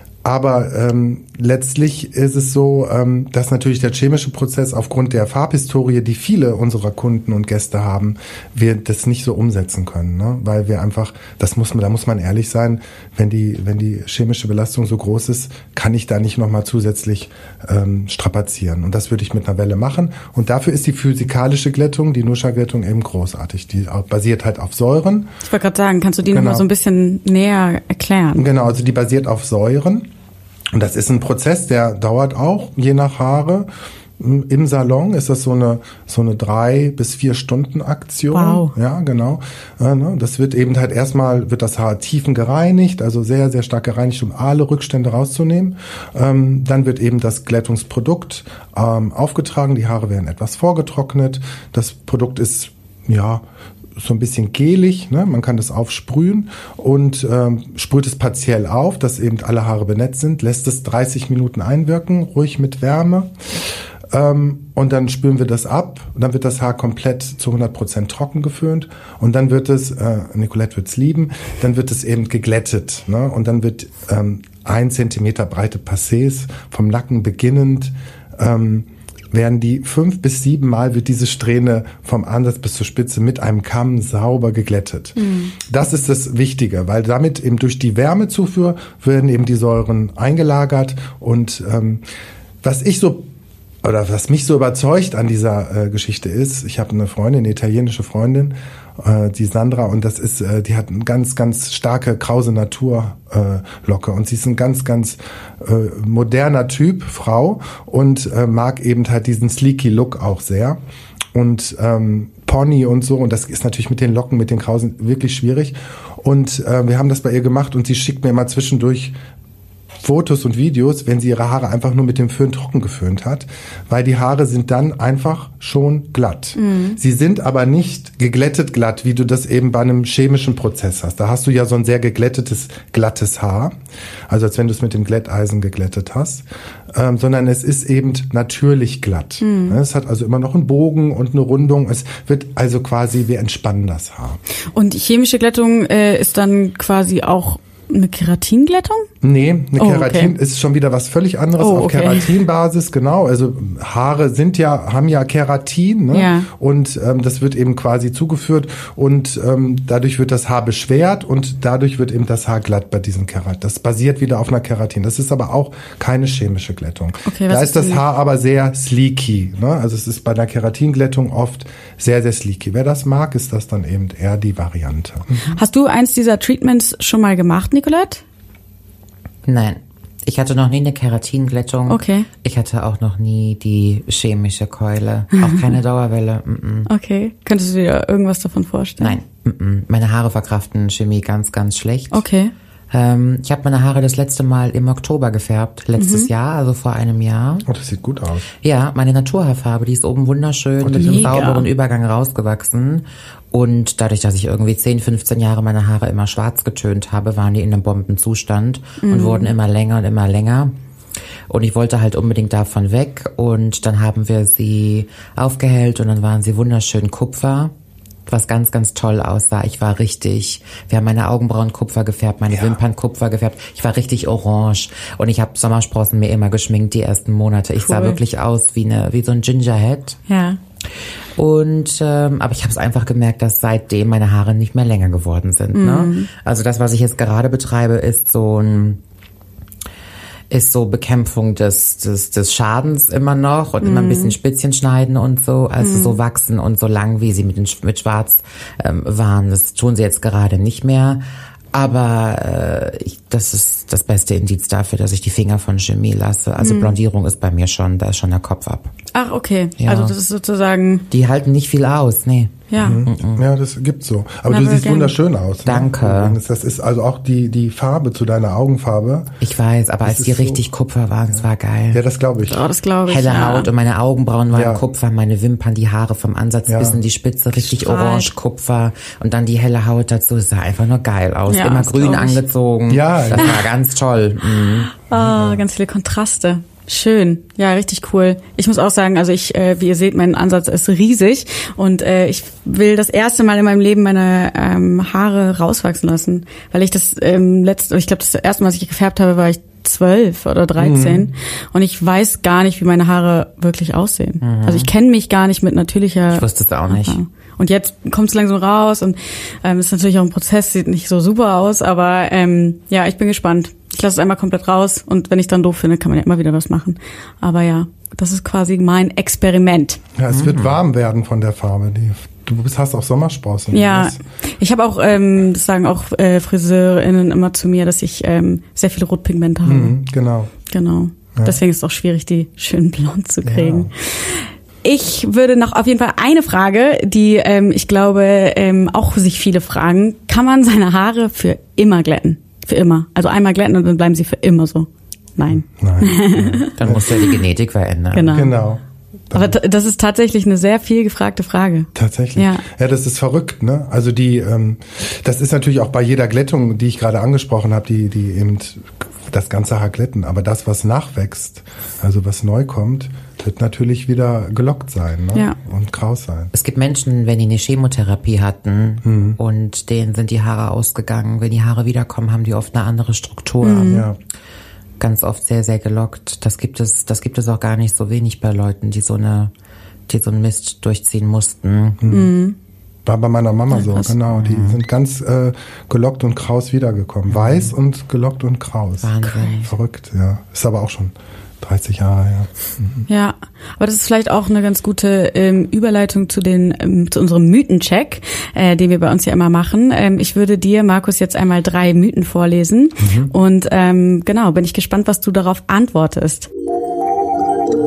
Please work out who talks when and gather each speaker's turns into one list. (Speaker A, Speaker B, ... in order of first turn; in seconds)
Speaker A: 0.2-25.3, 26.3-26.7, 28.4-30.1, 30.7-33.7, 34.2-53.4, 54.0-63.3, 64.1-92.0, 92.6-93.3, 93.8-110.8, 111.3-119.2, 120.0-133.7, 134.3-144.4, 149.2-175.5, 197.7-198.5, 200.8-201.4, 222.5-222.8, 262.8-269.3, 270.0-270.6, 271.9-272.6, 274.5-274.8, 276.7-277.0, 282.9-283.6, 285.1-285.6, 300.8-301.3, 320.1-324.2, 329.6-330.5, 333.4-333.9, 345.5-347.0, 348.3-349.6, 351.9-366.5, 369.0-369.4, 373.9-374.2, 382.0-382.3, 383.1-389.1, 389.6-393.1, 403.0-403.3
Speaker B: 25.4-28.4, 38.3-38.7, 85.2-85.5, 126.6-127.0, 139.4-139.8, 144.7-149.1, 149.8-150.3, 151.6-152.3, 156.1-156.5, 167.3-168.0, 175.4-178.2, 181.9-182.3, 186.9-189.2, 192.1-192.5, 196.0-196.3, 200.9-201.7, 209.0-209.5, 227.8-228.2, 230.3-230.6, 235.7-236.3, 243.8-244.3, 245.8-246.2, 256.6-256.9, 259.1-261.1, 262.7-263.0, 264.5-265.1, 272.4-273.7, 277.6-278.3, 281.5-282.4, 283.4-283.6, 285.1-320.0, 323.7-329.9, 330.7-346.7, 348.1-348.5, 349.3-352.6, 373.6-374.1, 382.1-382.6, 393.1-406.5
Speaker C: 179.4-186.9, 189.0-192.2, 192.9-197.7, 198.6-210.7, 211.5-217.7, 218.3-230.2, 231.3-239.0, 240.5-251.2, 251.7-258.9, 259.8-260.1, 261.1-263.4, 265.6-266.4, 269.4-272.0, 273.1-284.9, 304.4-304.9, 306.3-307.2, 320.3-320.8, 346.8-348.4, 366.5-374.1, 375.0-379.5, 380.1-382.0, 383.7-384.8, 387.3-387.7, 389.0-389.7